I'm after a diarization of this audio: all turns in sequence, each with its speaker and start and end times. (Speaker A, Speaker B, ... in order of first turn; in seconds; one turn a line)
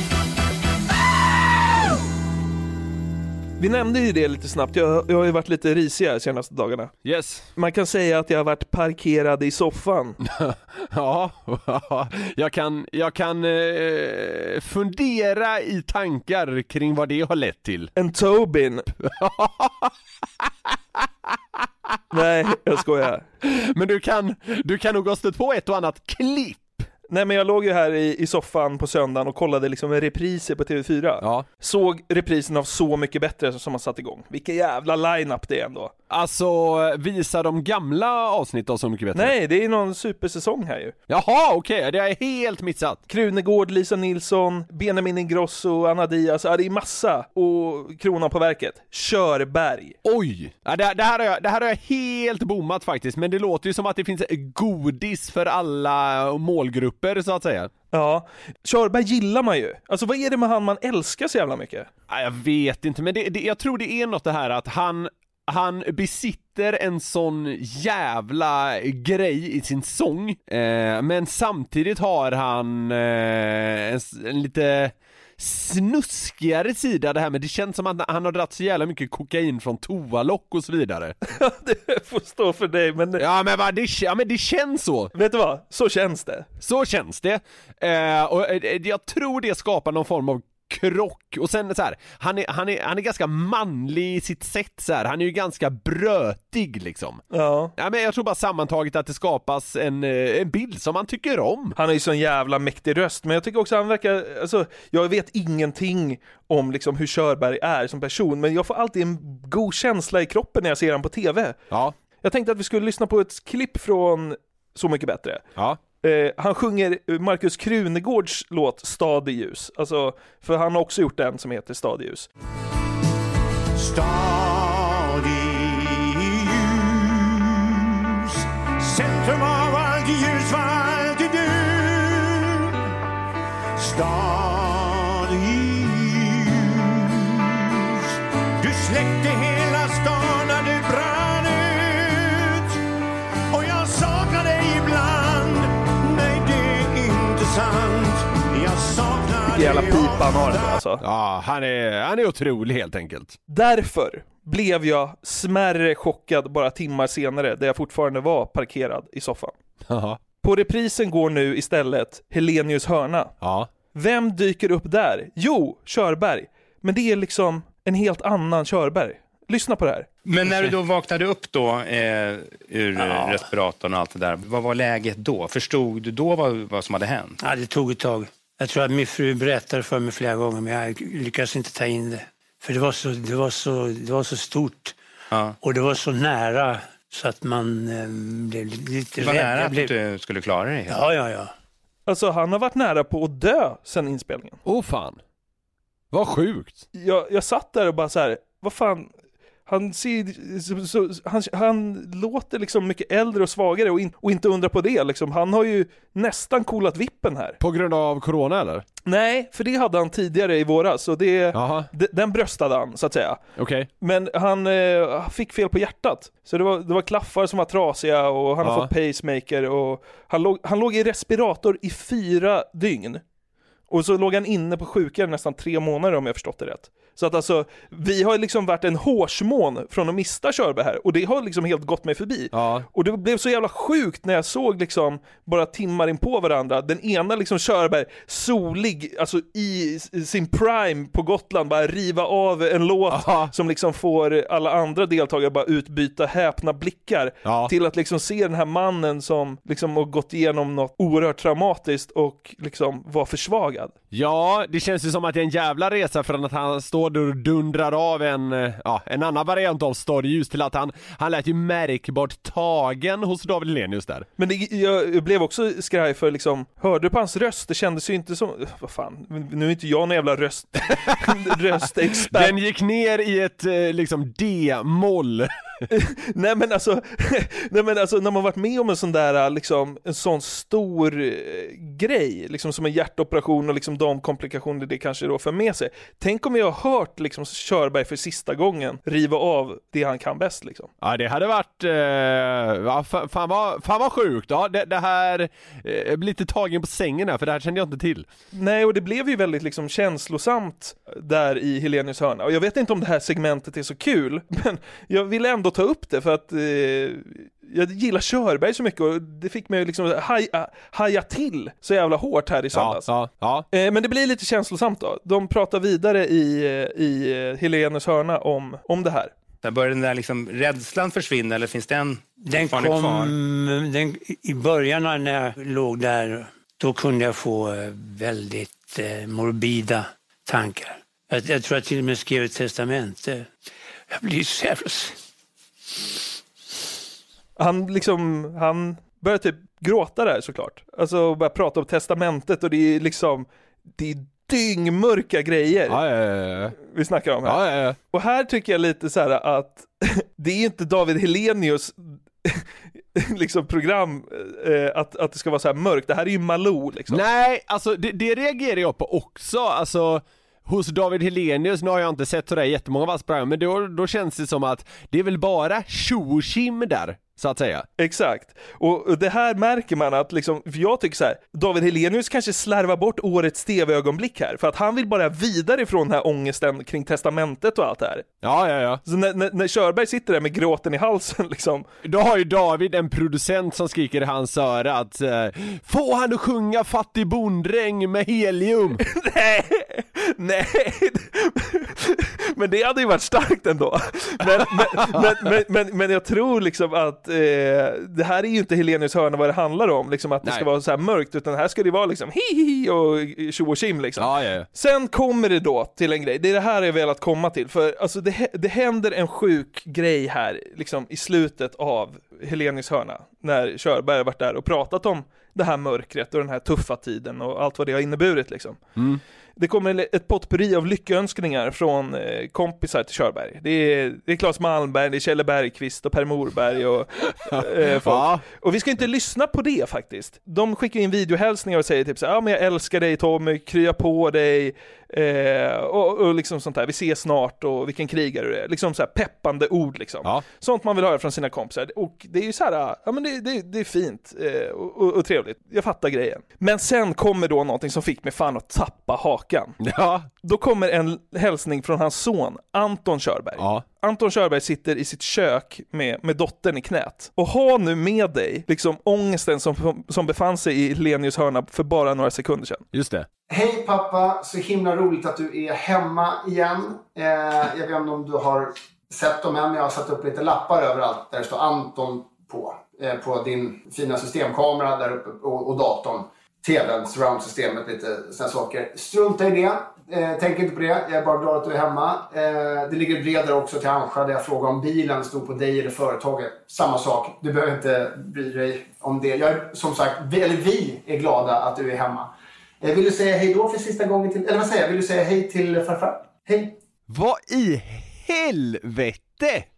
Speaker A: 3.6-6.9
Speaker B: 7.0-7.5
Speaker A: 7.6-10.2
Speaker B: 10.2-17.9
Speaker A: 18.0-18.9
Speaker B: 19.0-19.9
Speaker A: 22.1-23.2
Speaker B: 23.4-26.8
Speaker A: 27.1-35.9
Speaker B: 31.2-31.5
Speaker B: 36.1-39.3
Speaker A: 39.1-41.0
Speaker B: 41.1-43.0
Speaker A: 43.1-50.0
Speaker B: 50.0-57.7
Speaker A: 57.9-61.9
Speaker B: 62.1-81.2
Speaker A: 81.3-83.2
Speaker B: 83.2-85.1
Speaker A: 85.2-86.5
Speaker B: 86.6-97.2
Speaker A: 97.3-97.7
Speaker B: 97.8-101.8
Speaker A: 101.8-111.6
Speaker B: 111.7-112.0
Speaker A: 112.2-115.5
Speaker A: 116.0-122.3
Speaker C: 123.8-132.8
Speaker C: 133.8-142.8
Speaker C: 143.5-150.8
Speaker A: 149.5-151.0
Speaker B: 151.0-153.4
Speaker A: 153.5-159.6
Speaker B: 159.9-160.2
Speaker A: 160.4-163.3
Speaker B: 163.4-163.7
Speaker A: 163.9-170.1
Speaker D: 170.2-177.4
Speaker E: 173.0-173.4
Speaker E: 177.4-185.0
Speaker E: 185.6-189.9
Speaker D: 189.2-190.9
Speaker E: 190.9-191.5
Speaker A: 192.1-194.6
Speaker B: 194.7-195.2
Speaker B: 196.1-196.8
Speaker A: 196.9-199.1
Speaker A: 199.7-207.6
Speaker B: 207.6-208.8
Speaker A: 209.1-213.5
Speaker B: 211.5-211.9
Speaker B: 213.6-213.9
Speaker A: 214.0-223.2
Speaker B: 218.6-218.9
Speaker A: 223.9-253.9
Speaker B: 232.5-232.9
Speaker B: 243.1-243.5
Speaker B: 247.4-247.7
Speaker B: 254.1-264.3
Speaker A: 264.4-272.6
Speaker B: 272.2-275.5
Speaker A: 275.9-290.9
Speaker B: 291.0-298.3
Speaker A: 298.5-313.1
Speaker B: 312.7-313.6
Speaker A: 313.7-319.3
Speaker D: 319.6-323.3
Speaker E: 322.4-333.5
Speaker E: 334.1-335.2
Speaker A: 337.6-346.0
Speaker B: 345.9-346.8
Speaker A: 346.8-357.2
Speaker B: 347.4-348.0
Speaker B: 357.1-367.9
Speaker A: 368.0-378.3
Speaker B: 378.4-379.0
Speaker A: 379.1-381.9
Speaker B: 382.0-389.0
Speaker A: 389.1-418.8
Speaker B: 394.6-395.3
Speaker B: 404.2-404.7
Speaker B: 419.0-419.2
Speaker A: 419.6-449.8
Speaker B: 427.5-428.4
Speaker B: 449.8-450.3
Speaker A: 450.4-462.8
Speaker B: 453.6-453.8
Speaker B: 462.9-463.3
Speaker F: 463.5-496.8
Speaker B: 497.1-499.7